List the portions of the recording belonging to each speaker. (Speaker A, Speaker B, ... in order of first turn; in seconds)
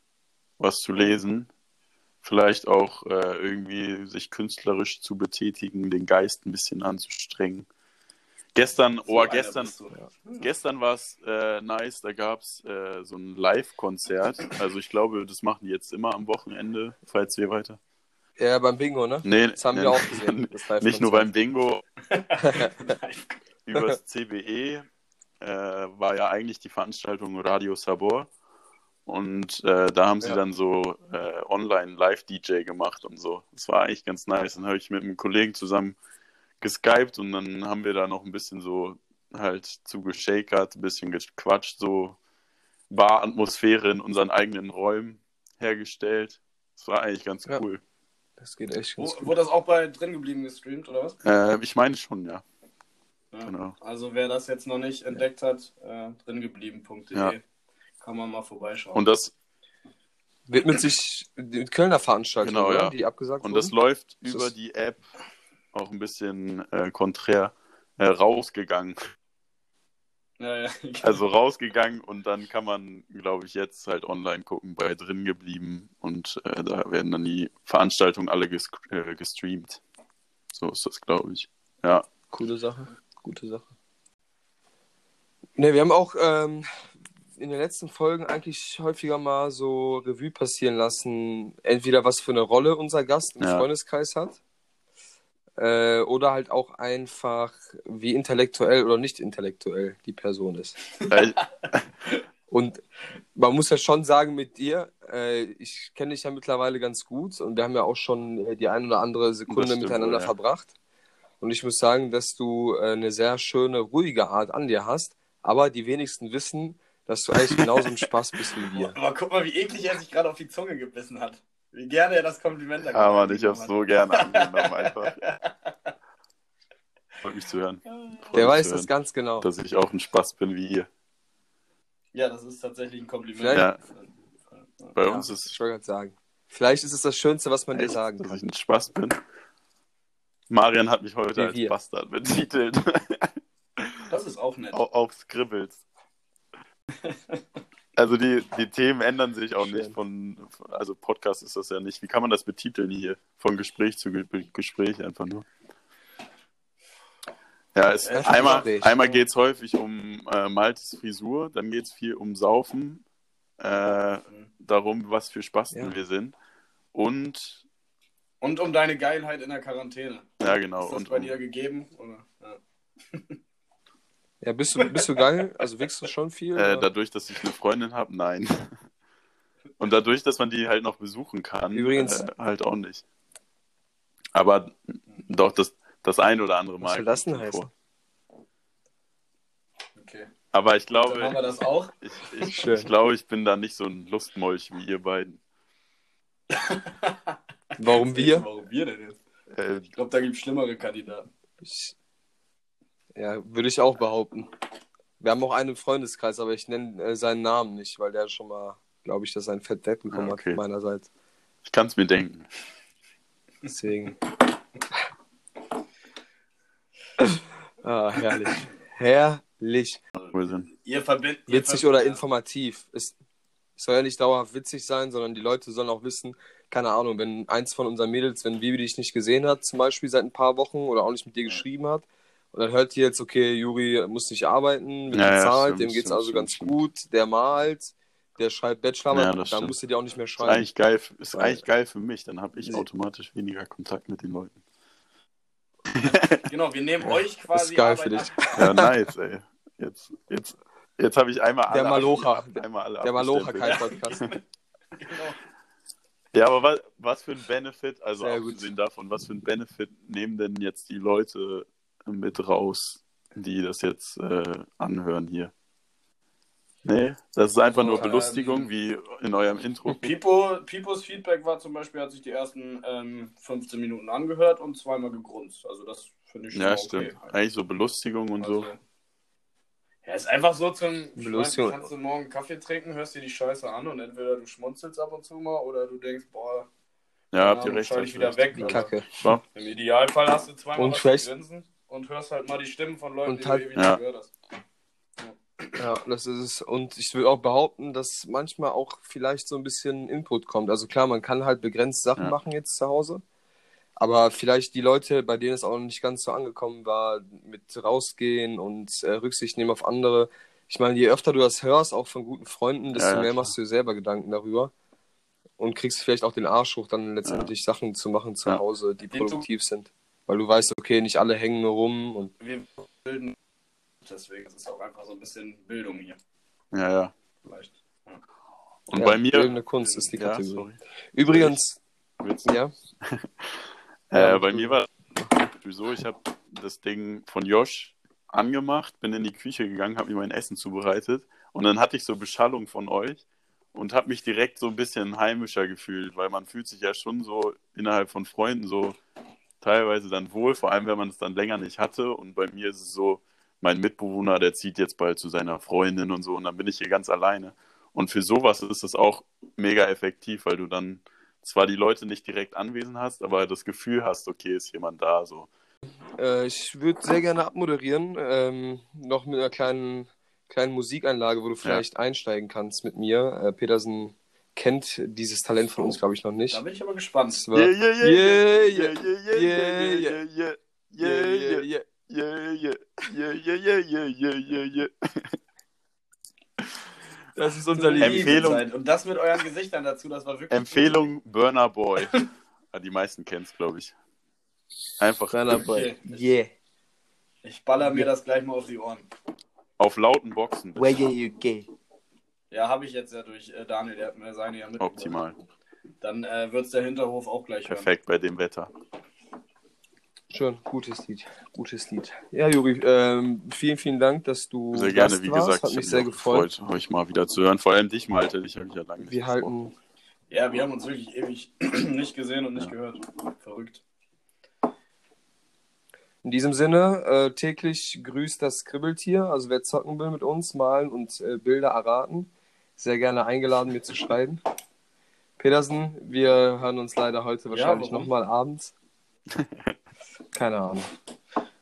Speaker A: 0.6-1.5, 2.2-7.7, 8.6-9.7, 10.4-17.8, 19.2-21.8, 23.7-24.9, 25.4-28.3, 29.1-36.0, 36.6-42.2, 42.9-47.8, 51.2-52.4, 53.5-53.8, 58.9-59.3, 62.4-65.0, 65.7-69.0, 71.0-79.8, 80.5-82.1, 93.4-93.7, 101.1-101.9, 109.5-110.3, 122.9-125.2, 127.2-130.9, 133.5-133.8, 134.9-135.6, 137.7-139.2, 140.5-144.1, 144.7-145.8, 148.0-155.5, 157.8-163.0, 163.6-166.3, 166.9-167.6, 170.4-171.3, 176.6-178.8, 179.8-183.0, 184.3-187.7, 190.5-191.4, 192.0-195.4, 199.5-199.9, 210.1-210.6, 211.7-212.5, 220.3-220.7, 235.1-236.8, 239.1-239.7, 240.4-244.6, 245.9-246.4, 248.6-254.3, 256.3-265.5, 266.9-270.1, 276.5-278.7, 287.3-289.4, 293.8-294.0, 312.9-313.6, 326.7-327.1, 328.9-329.6, 330.1-331.6, 332.2-343.2, 343.7-349.0, 349.6-365.5, 377.5-385.4, 388.0-388.6, 390.5-392.1, 392.7-393.9, 395.0-395.6, 399.8-401.1, 404.8-405.4, 407.7-408.7, 414.7-419.5, 439.3-439.7
Speaker B: 9.1-10.5, 22.1-23.4, 49.0-51.2, 53.3-57.4, 58.0-59.0, 70.4-71.2, 118.7-125.9, 127.9-128.3, 132.1-135.0, 144.1-144.8, 147.0-147.4, 158.1-158.8, 168.4-170.3, 170.8-173.4, 174.8-175.2, 190.0-190.3, 191.0-191.9, 196.5-199.2, 199.9-201.3, 220.2-222.2, 246.1-248.8, 253.7-254.4, 255.0-255.4, 267.7-268.7, 269.9-277.4, 278.4-278.8, 280.0-286.7, 287.4-288.9, 289.5-294.3, 295.2-295.8, 319.1-319.4, 322.4-323.4, 324.0-326.2, 327.4-328.2, 329.4-330.1, 376.5-377.4, 387.8-391.1, 395.5-396.3, 397.4-399.1, 402.5-405.1, 406.0-407.9, 420.3-423.8, 437.5-438.1
Speaker C: 18.4-21.3, 22.4-22.8, 48.4-49.3, 60.5-63.8, 82.3-83.7, 85.6-86.7, 87.4-94.4, 95.6-100.8, 102.5-102.8, 103.3-110.7, 111.4-119.0, 128.3-129.5, 133.4-133.7, 135.1-138.4, 141.4-141.7, 149.6-149.9, 158.1-159.2, 174.4-176.9, 181.7-182.3, 186.8-187.7, 192.4-192.9, 197.8-198.5, 201.6-201.9, 203.2-204.5, 205.2-211.1, 213.7-214.2, 217.2-220.0, 221.5-223.1, 223.8-240.7, 241.3-241.6, 247.0-248.9, 251.7-254.3, 258.2-258.7, 281.2-281.9, 288.6-289.3, 290.8-291.3, 293.3-293.6, 295.8-303.2, 304.0-314.7, 315.6-322.3, 328.9-331.8, 332.5-332.7, 334.1-334.8, 366.2-376.6, 377.3-380.2, 381.0-381.9, 387.4-388.5, 395.3-396.5, 400.8-401.7, 410.3-416.5, 419.0-419.7, 426.2-434.4, 435.4-438.7, 440.3-440.9